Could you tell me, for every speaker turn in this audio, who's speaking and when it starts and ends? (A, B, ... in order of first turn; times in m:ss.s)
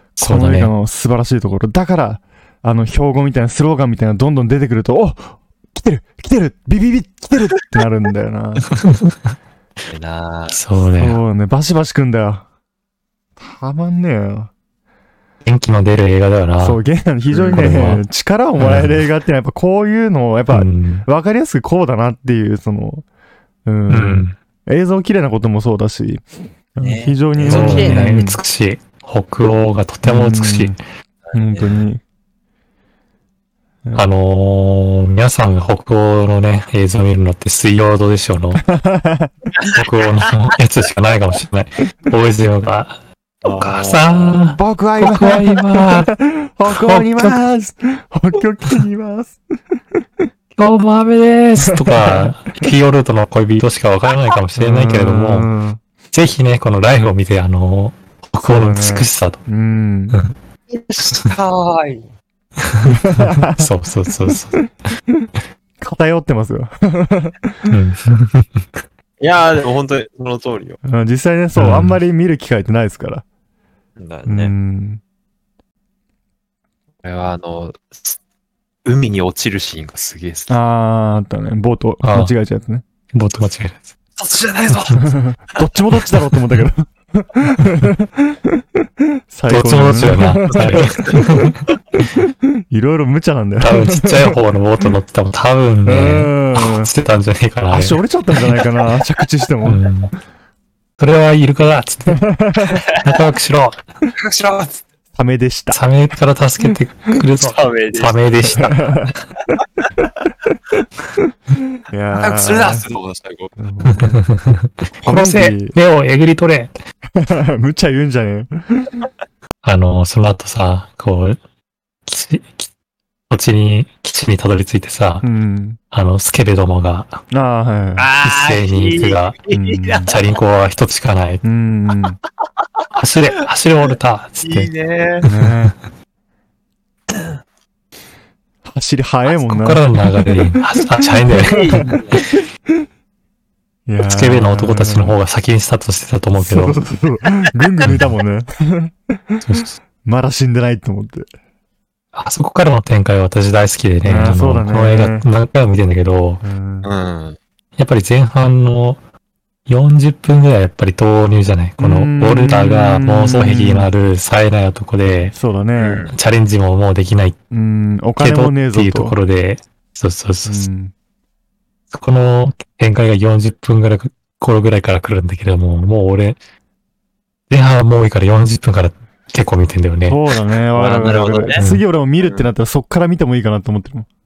0:00.2-0:08.7 A
0:00.2-0:00.7 B
0:08.7-0:09.2 B
0:09.9-0:10.6 C
0:10.5-0:11.2 B
0:10.8-0:12.4 A
0:13.4-0:14.5 A
0:15.4-0:16.8 B
0:16.6-0:23.0 A
0:17.3-0:17.6 C
0:17.5-0:18.0 B
0:18.6-0:19.0 B
0:20.5-0:21.1 B
0:23.6-0:28.4 A
0:23.9-0:24.4 B
0:26.8-0:28.1 C
0:27.4-0:30.8 B
0:30.0-0:30.8 A
0:31.2-0:31.8 C
0:31.3-0:32.0 A
0:33.9-0:38.6 B
0:38.6-0:39.5 A
0:39.8-0:46.1 B
0:43.4-0:44.4 C
0:44.5-0:49.4 A
0:46.6-0:47.4 B
0:50.6-0:55.5 B
0:51.6-0:52.3 A
0:54.6-0:55.8 A
0:56.1-0:59.4 B
0:58.4-1:00.2 A
1:00.7-1:02.0 C
1:02.6-1:04.6 B
1:02.9-1:03.7 A
1:04.2-1:04.7 A
1:05.8-1:07.8 A
1:07.7-1:08.7 B
1:09.2-1:10.8 C
1:10.8-1:13.2 A
1:11.6-1:12.0 B
1:14.0-1:14.5 C
1:14.2-1:15.0 A
1:17.0-1:18.2 C
1:18.8-1:20.6 C
1:20.5-1:22.8 A
1:22.0-1:22.3 B
1:23.1-1:23.9 B
1:24.2-1:25.7 C
1:25.0-1:28.6 A
1:26.3-1:26.6 B
1:29.3-1:31.5 A
1:29.5-1:31.6 B
1:32.0-1:34.9 A
1:33.6-1:38.0 B
1:35.8-1:36.9 A
1:37.7-1:39.8 A
1:39.6-1:40.1 B
1:41.0-1:42.3 B
1:42.1-1:42.8 A
1:42.6-1:43.0 C
1:42.9-1:43.8 B
1:44.1-1:44.8 C
1:45.1-1:45.8 A
1:45.7-1:49.0 B
1:47.4-1:48.6 C
1:48.4-1:50.3 A
1:51.9-1:52.9 A
1:52.1-1:53.5 C
1:53.6-1:54.2 A
1:53.9-1:56.8 B
1:55.0-1:55.8 A
1:57.2-1:59.0 A
1:59.6-2:01.4 B
2:02.1-2:02.7 B
2:03.3-2:05.2 B
2:05.2-2:05.8 A
2:05.9-2:07.2 B
2:07.3-2:08.1 A
2:08.0-2:10.4 C
2:08.2-2:09.4 B
2:09.5-2:10.1 A
2:10.1-2:11.4 B
2:11.4-2:12.2 A
2:12.9-2:15.7 B
2:14.4-2:15.2 C
2:15.2-2:15.8 A
2:18.6-2:22.4 A
2:19.4-2:21.9 B
2:21.3-2:22.2 C
2:23.9-2:25.2 A
2:24.0-2:26.8 B
2:26.4-2:29.4 A
2:27.5-2:28.0 C
2:27.8-2:28.2 B
2:29.4-2:29.8 B
2:30.0-2:31.3 A
2:32.1-2:36.4 B
2:34.0-2:35.2 A
2:36.4-2:36.9 A
2:36.8-2:37.4 C
2:37.8-2:39.0 B
2:39.7-2:45.3 B
2:41.8-2:43.9 A
2:45.3-2:46.1 A
2:45.8-2:46.2 C
2:46.1-2:47.4 B
2:47.5-2:49.2 A
2:48.2-2:50.7 B
2:50.4-2:50.9 A
2:51.9-2:56.4 B
2:57.5-3:00.2 B
3:00.1-3:04.1 A
3:00.7-3:01.7 C
3:01.6-3:01.8 B
3:02.2-3:02.5 C